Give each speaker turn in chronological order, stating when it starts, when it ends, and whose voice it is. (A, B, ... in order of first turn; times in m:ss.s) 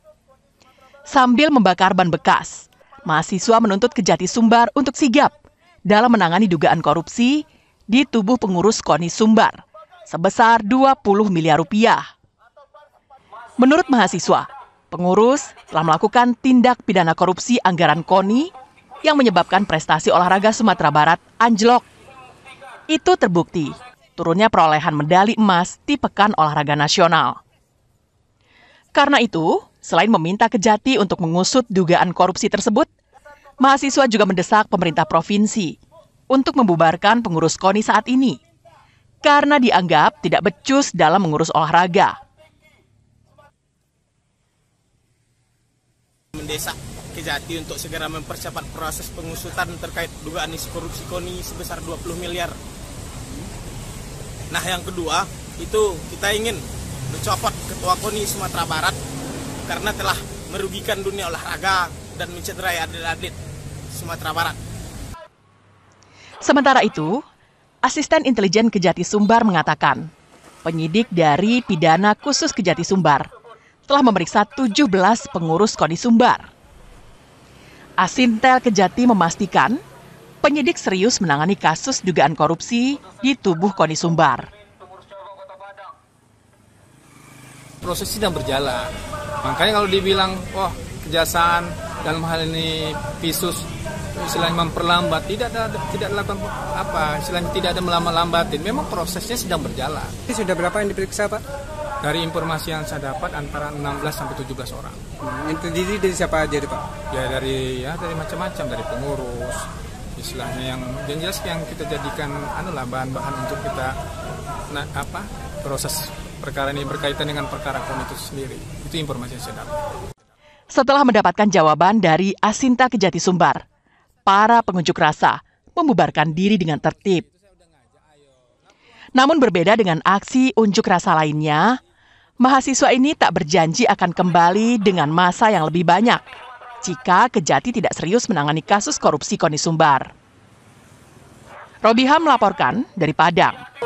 0:01.1-0:05.3 A
0:05.9-0:12.0 A
0:13.6-0:18.5 A
0:19.0-0:21.8 A
0:22.9-0:27.4 A
0:28.9-0:32.9 A
0:33.6-0:35.8 A
0:36.3-0:38.4 A
0:39.2-0:42.2 A
0:46.4-0:52.6 B
0:54.5-0:59.0 B
0:59.7-1:03.4 B
1:03.9-1:04.6 B
1:06.4-1:07.2 A
1:07.8-1:10.1 A
1:10.6-1:13.3 A
1:13.9-1:16.5 A
1:18.0-1:19.8 A
1:20.4-1:24.5 A
1:27.8-1:28.9 C
1:29.4-1:40.2 C
1:40.3-1:41.4 D
1:42.0-1:45.0 C
1:45.2-1:47.0 D
1:47.0-1:53.9 C
1:54.7-1:59.7 C
2:00.7-2:03.6 A
2:04.2-2:07.2 A
2:09.2-2:11.8 A
2:12.4-2:16.2 A
2:16.8-2:20.1 A
2:21.8-2:23.6 A